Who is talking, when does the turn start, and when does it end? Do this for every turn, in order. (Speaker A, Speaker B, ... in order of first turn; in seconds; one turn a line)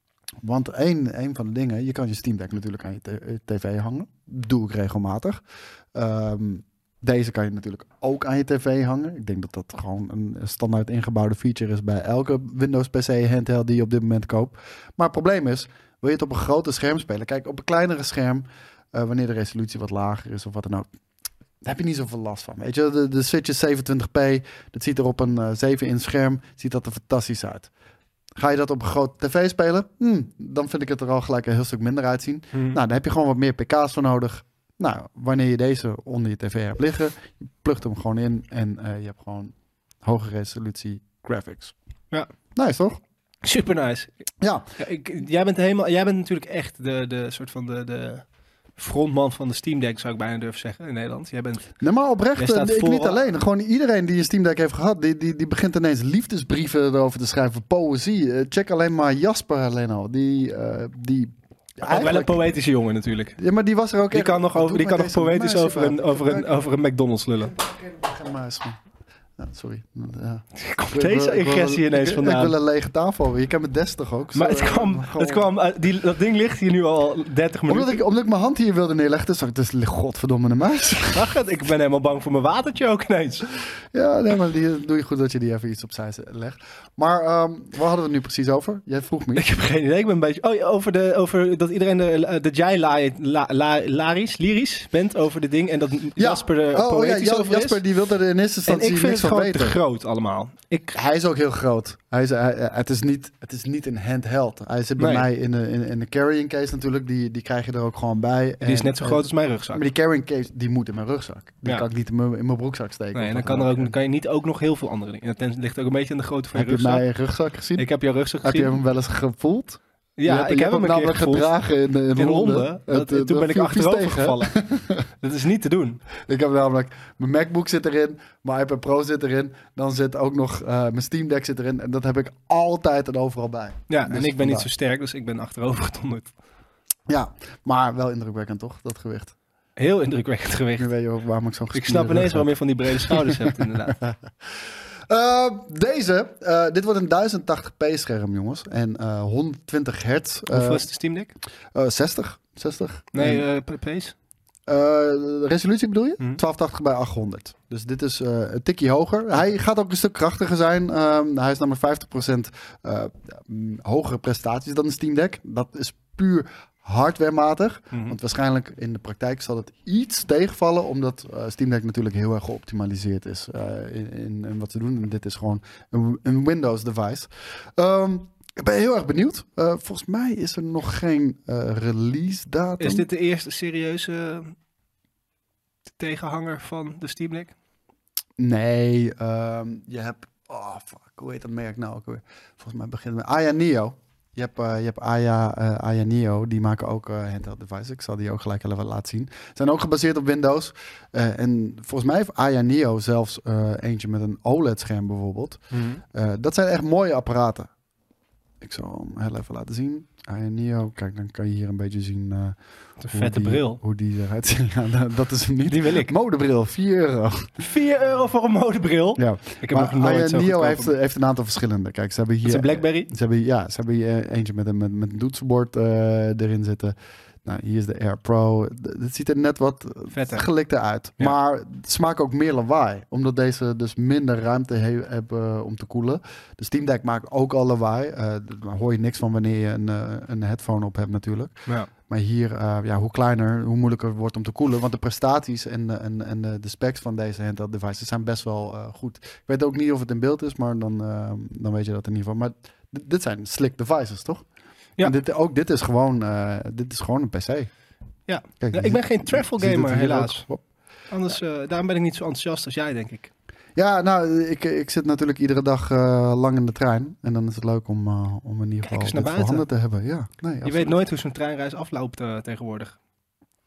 Speaker A: 0.4-5.4
Speaker A: 5.9-20.9
Speaker A: 21.6-27.7
Speaker A: 28.4-41.7
Speaker B: 32.5-32.8
Speaker A: 42.5-43.0
Speaker B: 43.4-44.1
Speaker B: 44.8-48.2
Speaker B: 48.8-51.8
Speaker A: 51.8-62.5
Speaker B: 52.4-53.2
Speaker B: 61.8-63.4
Speaker A: 63.4-66.5
Speaker B: 64.1-67.5
Speaker A: 67.4-68.8
Speaker A: 69.4-75.5
Speaker B: 70.6-72.5
Speaker B: 74.3-78.0
Speaker A: 77.7-81.2
Speaker B: 81.1-83.5
Speaker A: 83.9-89.4
Speaker B: 89.3-97.8
Speaker A: 96.2-99.8
Speaker B: 98.7-101.0
Speaker A: 100.9-113.9
Speaker B: 105.0-105.3
Speaker B: 108.6-109.8
Speaker B: 113.1-117.1
Speaker A: 116.5-117.9
Speaker B: 117.8-118.8
Speaker A: 118.4-125.0
Speaker B: 120.2-121.5
Speaker B: 122.2-124.6
Speaker B: 125.2-126.0
Speaker A: 126.2-134.7
Speaker B: 133.9-136.3
Speaker A: 137.1-139.3
Speaker B: 139.8-140.9
Speaker A: 140.8-143.3
Speaker B: 141.7-144.0
Speaker A: 144.0-150.9
Speaker B: 150.5-151.3
Speaker A: 151.7-153.4
Speaker B: 153.1-154.1
Speaker A: 154.7-183.1
Speaker B: 167.9-168.2
Speaker B: 182.8-184.5
Speaker B: 186.0-187.5
Speaker A: 188.4-205.6
Speaker B: 205.7-206.0
Speaker A: 206.1-207.7
Speaker A: 208.6-217.5
Speaker B: 213.0-213.8
Speaker B: 215.7-216.1
Speaker B: 217.6-220.9
Speaker A: 219.2-254.4
Speaker B: 222.4-223.1
Speaker B: 230.1-230.4
Speaker A: 255.0-257.7
Speaker B: 258.3-260.4
Speaker A: 258.6-260.6
Speaker B: 261.1-263.3
Speaker A: 263.8-271.0
Speaker B: 268.8-269.6
Speaker B: 270.6-272.9